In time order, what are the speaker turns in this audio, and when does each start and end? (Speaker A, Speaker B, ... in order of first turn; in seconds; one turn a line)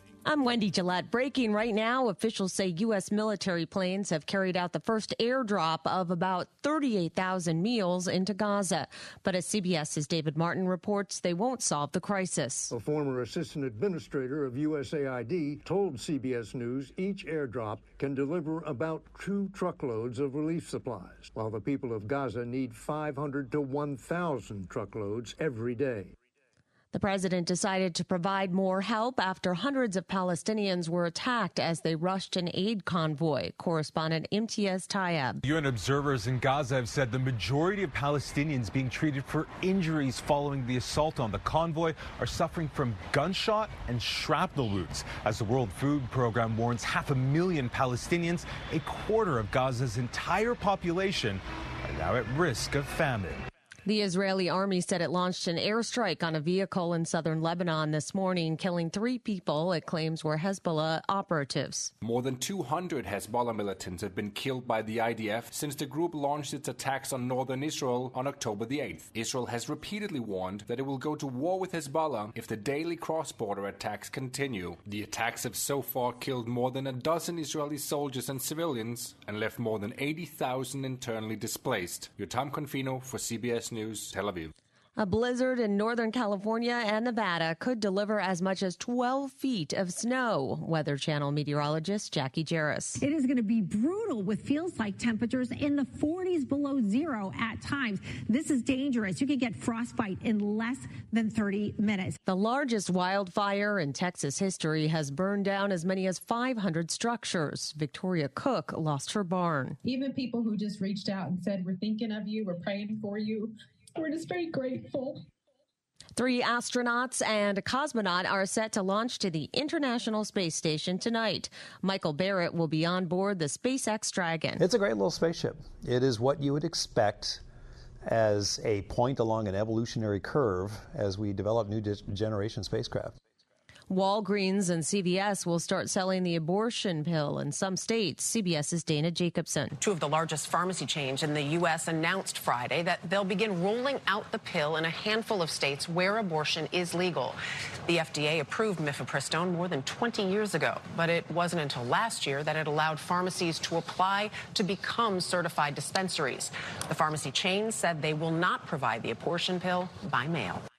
Speaker A: 0.2-12.7
Speaker B: 12.7-26.1
Speaker A: 26.9-35.4
Speaker C: 35.4-53.4
Speaker A: 53.8-61.9
Speaker D: 62.0-84.5
Speaker A: 85.0-93.0
Speaker E: 93.0-102.2
Speaker A: 102.2-109.8
Speaker F: 109.8-115.2
Speaker A: 116.2-124.6
Speaker G: 124.6-127.4
Speaker G: 128.1-133.2
Speaker A: 133.9-139.8
Speaker H: 139.8-160.6